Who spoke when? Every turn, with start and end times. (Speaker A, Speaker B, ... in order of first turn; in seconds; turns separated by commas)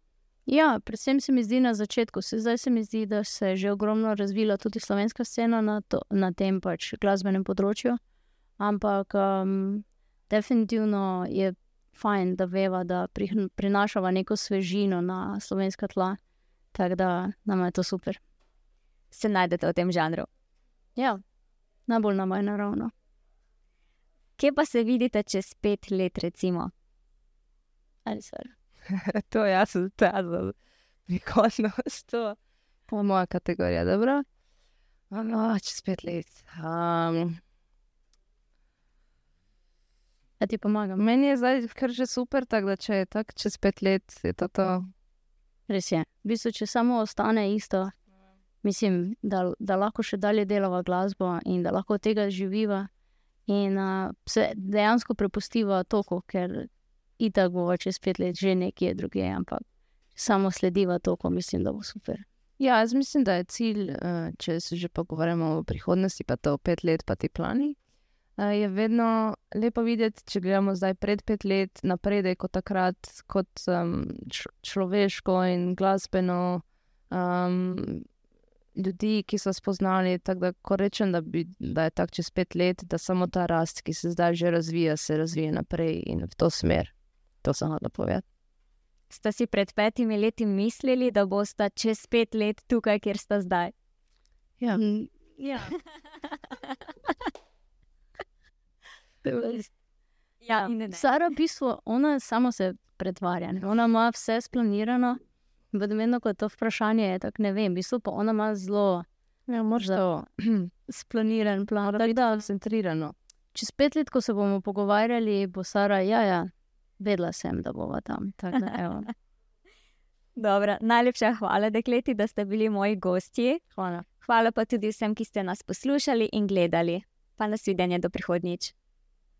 Speaker A: 0.5-8.0, Speaker A: 8.6-16.2, Speaker A: 16.7-18.2, Speaker B: 19.1-20.3, Speaker A: 21.9-22.9, Speaker B: 24.4-26.7, Speaker A: 28.1-28.5, Speaker C: 29.0-30.5, Speaker C: 31.1-32.4, Speaker C: 32.9-34.2, Speaker C: 35.1-37.4, Speaker A: 40.4-41.0, Speaker C: 41.0-44.9, Speaker A: 45.7-47.9, Speaker A: 48.6-52.9, Speaker A: 53.5-59.6, Speaker A: 60.1-62.2, Speaker C: 62.6-67.8, Speaker C: 68.4-78.0, Speaker C: 78.8-86.9, Speaker C: 87.4-88.2, Speaker B: 89.1-93.7, Speaker A: 94.6-95.7, Speaker A: 99.2-99.7, Speaker B: 100.4-101.0, Speaker A: 100.6-105.2, Speaker A: 105.7-109.0, Speaker C: 109.5-110.7, Speaker A: 110.9-112.5, Speaker C: 111.9-113.1, Speaker A: 113.5-119.1, Speaker B: 120.4-123.6, Speaker A: 123.7-124.0, Speaker B: 124.2-128.7